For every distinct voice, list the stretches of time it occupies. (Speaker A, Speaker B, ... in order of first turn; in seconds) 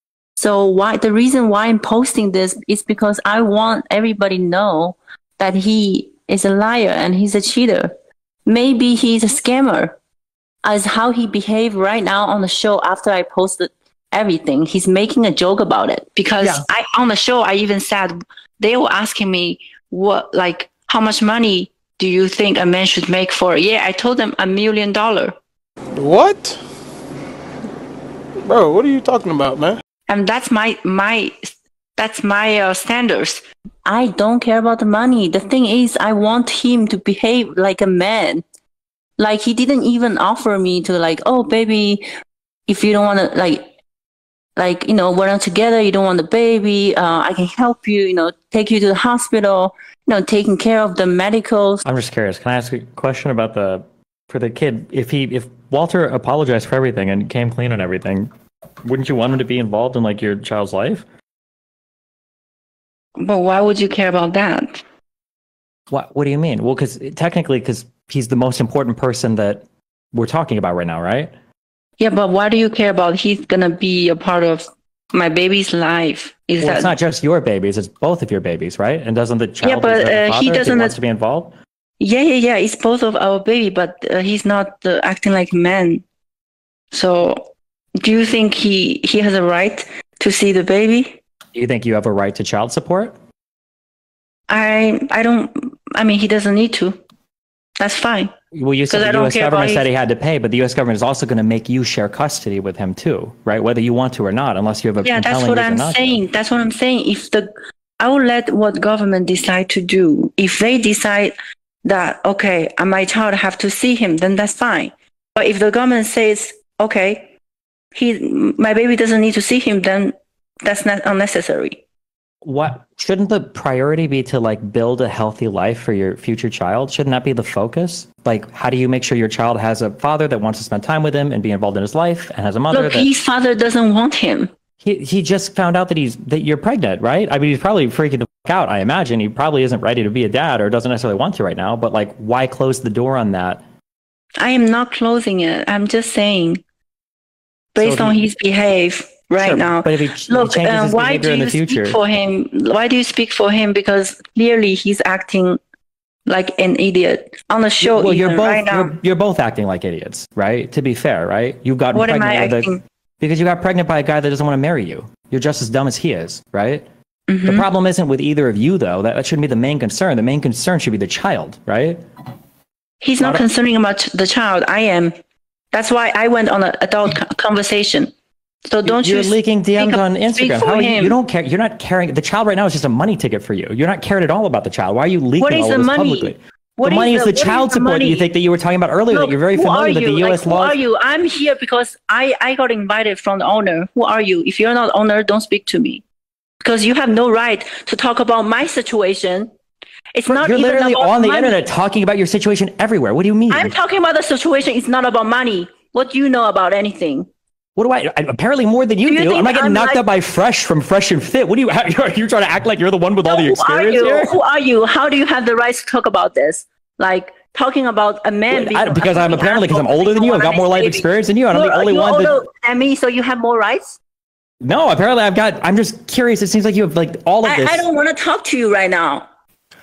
Speaker A: 0.4-7.9, 8.5-10.0, 10.6-25.4, 30.1-38.4, 39.2-42.1, 42.7-43.7, 44.6-51.8, 63.2-64.8, 72.0-76.9, 79.6-81.0, 82.0-86.0, 86.9-87.5, 88.0-91.2, 94.5-97.0, 97.8-98.3, 98.9-99.9, 105.0-107.5, 108.0-117.3, 117.9-121.8, 132.7-134.5, 144.4-146.6, 147.7-155.6, 156.3-159.0, 161.9-162.8, 167.3-167.7, 173.0-175.2, 175.7-178.1, 178.7-181.2, 185.4-188.3, 189.1-196.0, 196.6-199.5, 200.1-201.6, 203.5-207.3, 209.1-210.0, 213.2-224.0, 227.4-229.3
Speaker B: 26.0-26.6, 28.5-29.8
Speaker C: 51.9-58.3, 58.9-61.0, 65.9-71.3, 76.6-81.5, 91.5-93.1, 98.5-106.2, 122.4-133.1, 134.8-143.6, 147.8-148.2, 149.4-152.0, 157.8-166.8, 167.5-172.0, 178.8-190.8, 200.3-203.7, 207.8-214.4, 218.5-222.4, 224.6-227.9